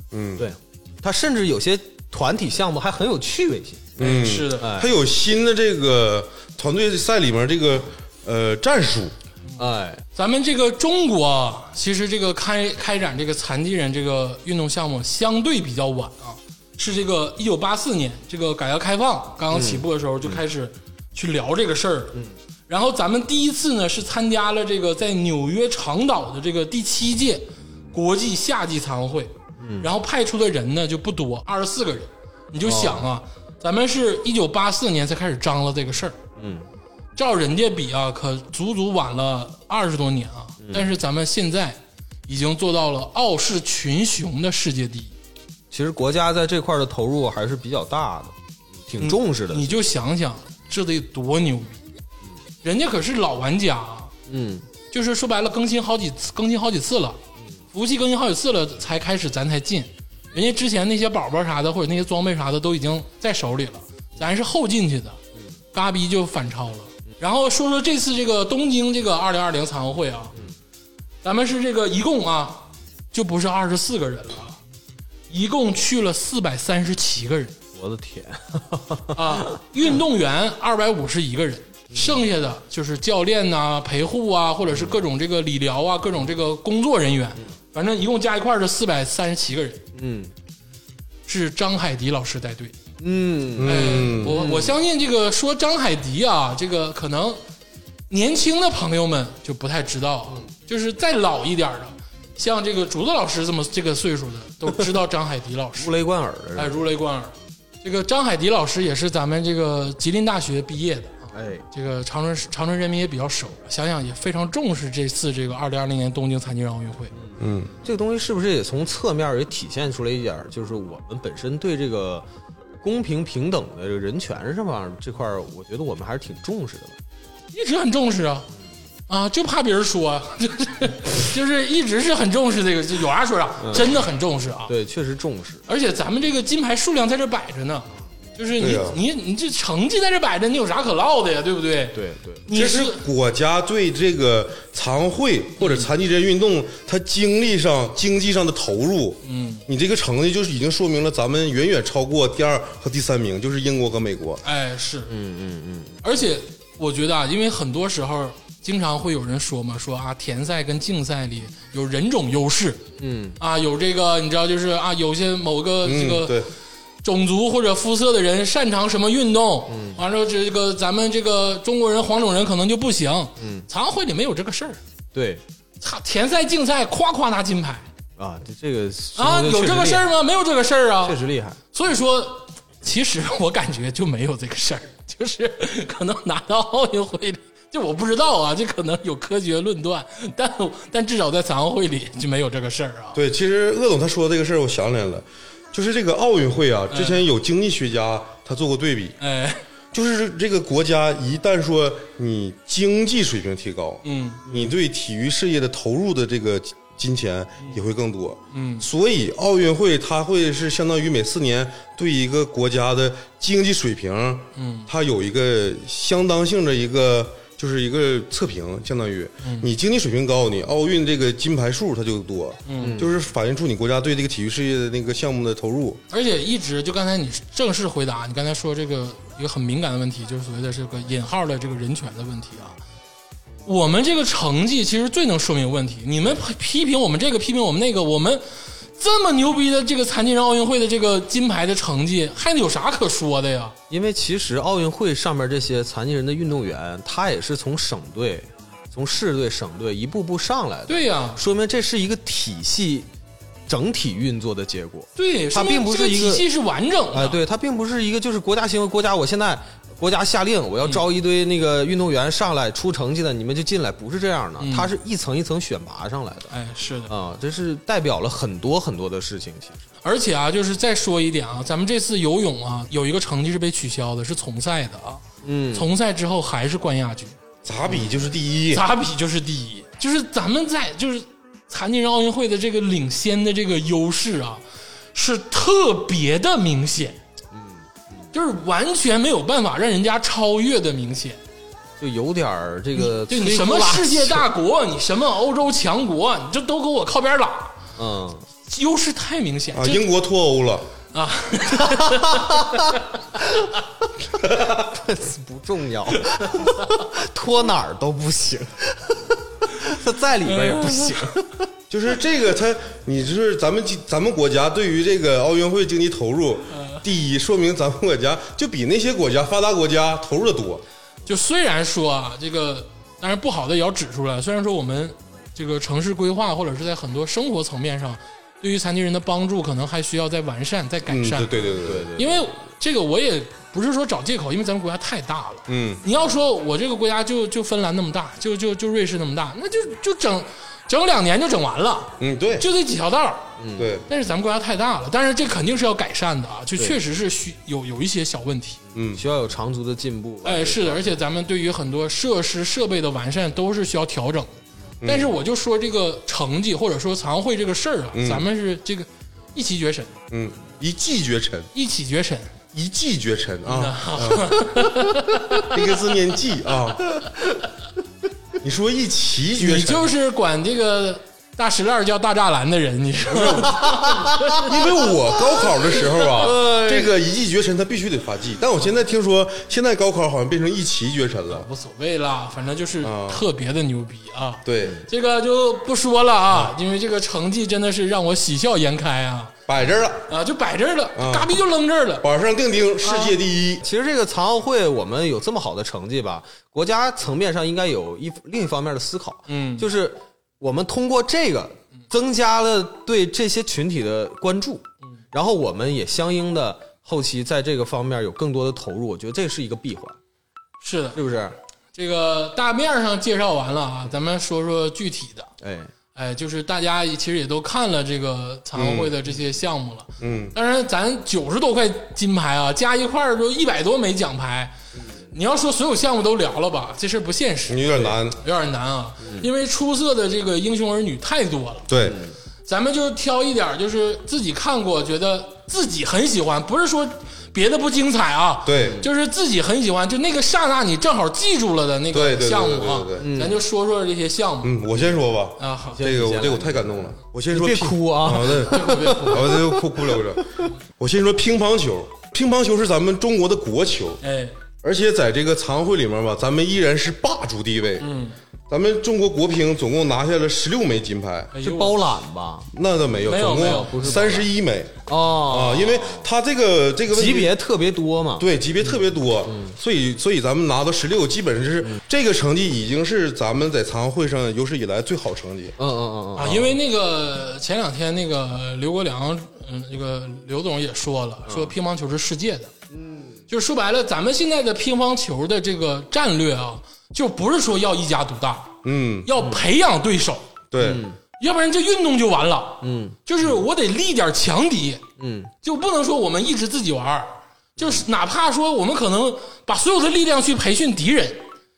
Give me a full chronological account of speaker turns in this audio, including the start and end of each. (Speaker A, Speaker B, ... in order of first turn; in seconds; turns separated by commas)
Speaker A: 0.1-0.5, Speaker B: 0.4-4.9, Speaker A: 4.0-9.1, Speaker C: 4.0-4.7, Speaker B: 9.6-10.0, Speaker C: 10.1-36.2, Speaker B: 19.5-20.4, Speaker B: 29.6-29.9, Speaker B: 32.6-33.1, Speaker B: 36.4-36.7, Speaker C: 37.2-45.1, Speaker B: 40.6-40.9, Speaker B: 45.7-49.8, Speaker C: 49.0-51.8, Speaker C: 52.6-54.1, Speaker B: 54.3-54.7, Speaker C: 54.9-57.2, Speaker C: 57.7-65.2, Speaker C: 65.7-70.3, Speaker C: 71.2-74.6, Speaker C: 75.3-77.6, Speaker B: 77.7-79.6, Speaker C: 79.1-89.8, Speaker B: 81.9-82.3, Speaker B: 84.7-85.0, Speaker B: 90.0-90.3, Speaker C: 91.3-92.8, Speaker B: 93.0-94.8, Speaker A: 93.6-94.4, Speaker C: 93.6-97.4, Speaker C: 98.1-105.9, Speaker B: 105.8-106.9, Speaker C: 106.5-117.1, Speaker B: 111.3-111.7, Speaker B: 117.1-122.3, Speaker A: 117.4-117.7, Speaker B: 122.8-127.0, Speaker C: 127.5-128.5, Speaker C: 129.1-134.7, Speaker B: 133.6-134.0, Speaker B: 134.7-135.7, Speaker C: 135.7-143.0, Speaker A: 138.6-139.0, Speaker B: 141.9-142.5, Speaker A: 142.5-154.4, Speaker C: 145.6-145.9, Speaker C: 149.2-149.7, Speaker C: 154.4-155.1, Speaker B: 155.1-156.0, Speaker C: 156.0-162.9, Speaker B: 163.0-163.4, Speaker C: 163.4-166.4, Speaker A: 165.8-166.5, Speaker C: 167.0-174.8, Speaker B: 169.7-170.0, Speaker B: 173.4-173.7, Speaker B: 175.1-175.4, Speaker C: 175.8-177.9, Speaker B: 178.2-180.1, Speaker C: 179.2-181.2, Speaker B: 181.0-181.6, Speaker C: 181.7-193.2, Speaker A: 193.2-199.2, Speaker C: 196.9-197.2, Speaker C: 199.2-199.6, Speaker A: 199.9-226.0, Speaker C: 204.0-204.4, Speaker C: 208.5-208.9, Speaker C: 214.6-214.9, Speaker C: 219.4-219.7, Speaker C: 222.7-223.0, Speaker B: 222.8-223.2, Speaker C: 226.1-232.8, Speaker C: 233.7-238.4, Speaker C: 239.0-243.8, Speaker B: 243.9-253.1, Speaker C: 250.9-251.4, Speaker B: 253.7-256.5, Speaker C: 255.2-257.4, Speaker B: 257.1-266.5, Speaker C: 264.6-264.9, Speaker C: 266.5-267.1, Speaker B: 267.1-269.8, Speaker C: 270.0-275.2, Speaker B: 275.4-275.9, Speaker C: 275.7-277.4, Speaker A: 277.6-278.9, Speaker B: 277.9-278.2, Speaker C: 278.7-284.6, Speaker C: 285.1-287.2, Speaker B: 287.5-288.3, Speaker C: 288.3-291.4, Speaker B: 292.0-294.5, Speaker C: 293.0-297.8, Speaker B: 298.0-298.5, Speaker C: 298.7-300.1, Speaker A: 299.7-300.9, Speaker C: 301.1-303.6, Speaker B: 301.8-302.8, Speaker A: 304.4-304.9, Speaker B: 304.8-311.7, Speaker C: 306.4-306.9, Speaker C: 310.5-311.2, Speaker A: 311.9-320.8, Speaker C: 316.7-317.0, Speaker C: 321.3-343.5, Speaker A: 331.1-332.1, Speaker B: 331.8-332.5, Speaker A: 335.7-336.0, Speaker A: 342.2-342.7, Speaker B: 343.6-344.0, Speaker A: 343.8-344.1, Speaker C: 344.1-348.8, Speaker B: 348.9-351.2, Speaker A: 348.9-349.2, Speaker C: 350.4-360.1, Speaker A: 355.0-355.3, Speaker A: 358.1-358.5, Speaker A: 360.3-361.7, Speaker C: 361.7-362.6, Speaker A: 362.7-364.9, Speaker C: 363.7-365.8, Speaker A: 365.6-367.4, Speaker A: 368.6-370.1, Speaker C: 369.6-374.9, Speaker A: 373.3-373.9, Speaker B: 374.1-374.4, Speaker A: 374.5-381.7, Speaker C: 376.2-376.8, Speaker B: 376.4-377.1, Speaker C: 381.5-389.5, Speaker A: 383.0-383.4, Speaker A: 384.6-385.0, Speaker A: 389.7-390.3, Speaker C: 390.3-392.3, Speaker A: 391.2-391.5, Speaker A: 392.2-393.8, Speaker C: 393.0-393.4, Speaker B: 393.8-410.2, Speaker C: 399.5-399.9, Speaker C: 410.8-411.2, Speaker B: 411.1-411.6, Speaker C: 411.9-415.5, Speaker B: 415.6-415.9, Speaker C: 416.1-424.7, Speaker A: 418.8-419.1, Speaker A: 420.2-420.6, Speaker C: 425.3-431.9, Speaker A: 427.7-428.4, Speaker B: 429.2-429.5, Speaker A: 431.9-432.2, Speaker B: 432.0-432.4, Speaker C: 432.6-444.8, Speaker A: 438.6-439.1, Speaker B: 438.8-439.1, Speaker A: 442.1-443.3, Speaker B: 443.2-443.6, Speaker A: 444.6-454.2, Speaker C: 445.6-446.0, Speaker B: 445.9-450.4, Speaker C: 448.6-449.7, Speaker C: 454.2-454.6, Speaker A: 454.8-458.1, Speaker C: 458.0-458.4, Speaker A: 458.7-461.5, Speaker C: 461.5-462.0, Speaker B: 461.6-462.7, Speaker A: 462.7-467.5, Speaker C: 463.2-464.4, Speaker B: 463.3-464.5, Speaker B: 465.1-466.3, Speaker B: 467.1-469.8, Speaker A: 468.4-475.8, Speaker B: 475.8-476.8, Speaker C: 476.4-482.7, Speaker B: 481.5-481.7, Speaker B: 482.9-483.4, Speaker C: 483.5-490.5, Speaker A: 488.8-489.3, Speaker B: 489.4-489.7, Speaker A: 490.7-491.1, Speaker B: 490.8-491.2, Speaker C: 491.4-495.0, Speaker B: 492.8-493.2, Speaker B: 495.2-495.5, Speaker C: 495.6-501.4, Speaker B: 497.8-498.0